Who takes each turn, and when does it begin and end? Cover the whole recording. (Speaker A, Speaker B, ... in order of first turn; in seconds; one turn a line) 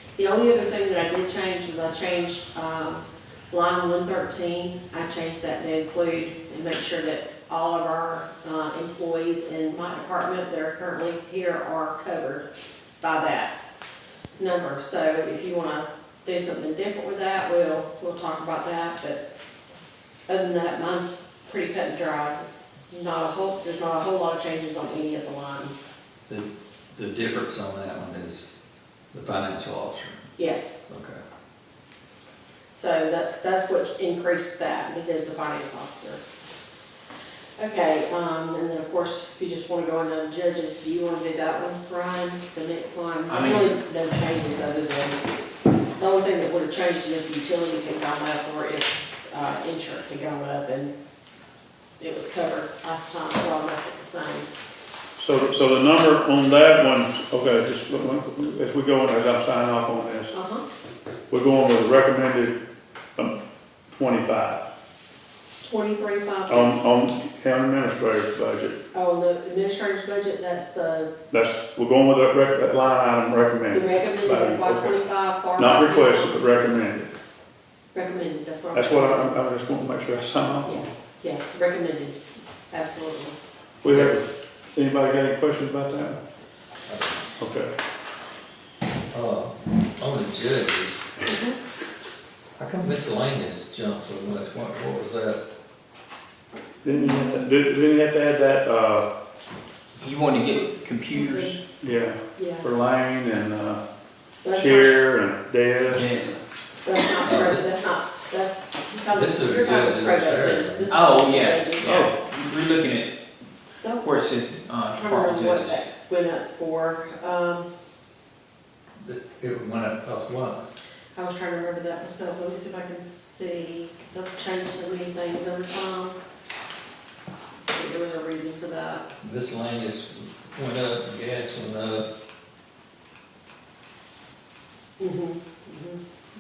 Speaker A: 0.2-12.4
Speaker A: 13.0-13.6
Speaker A: 14.4-19.2
Speaker A: 20.3-25.9
Speaker B: 26.3-28.5
Speaker B: 29.1-30.2
Speaker A: 30.4-30.8
Speaker B: 30.9-31.2
Speaker A: 32.7-36.2
Speaker A: 37.6-45.2
Speaker C: 43.3-43.7
Speaker A: 46.0-51.0
Speaker A: 52.0-54.5
Speaker D: 55.2-60.3
Speaker A: 60.3-60.6
Speaker D: 61.3-62.6
Speaker D: 63.9-64.6
Speaker A: 65.6-66.8
Speaker D: 66.5-68.8
Speaker A: 68.9-71.1
Speaker D: 71.3-75.0
Speaker A: 73.7-76.4
Speaker D: 75.5-77.1
Speaker A: 77.9-79.4
Speaker D: 78.7-80.8
Speaker A: 80.6-82.2
Speaker A: 82.7-83.3
Speaker D: 83.8-86.2
Speaker B: 86.9-87.3
Speaker D: 87.4-87.7
Speaker B: 89.1-91.1
Speaker B: 92.6-95.4
Speaker D: 96.8-99.1
Speaker A: 96.9-97.5
Speaker C: 100.0-101.6
Speaker A: 100.4-101.6
Speaker D: 101.8-103.8
Speaker A: 102.3-102.7
Speaker A: 104.4-104.9
Speaker D: 104.5-106.3
Speaker C: 105.9-106.4
Speaker A: 106.8-112.1
Speaker B: 107.2-107.6
Speaker B: 109.1-111.0
Speaker C: 110.9-113.2
Speaker D: 111.8-112.1
Speaker A: 113.8-114.1
Speaker C: 114.0-115.9
Speaker A: 114.9-117.7
Speaker B: 119.0-120.6
Speaker A: 121.2-126.2
Speaker A: 127.6-129.0
Speaker B: 129.2-132.1
Speaker A: 135.0-136.0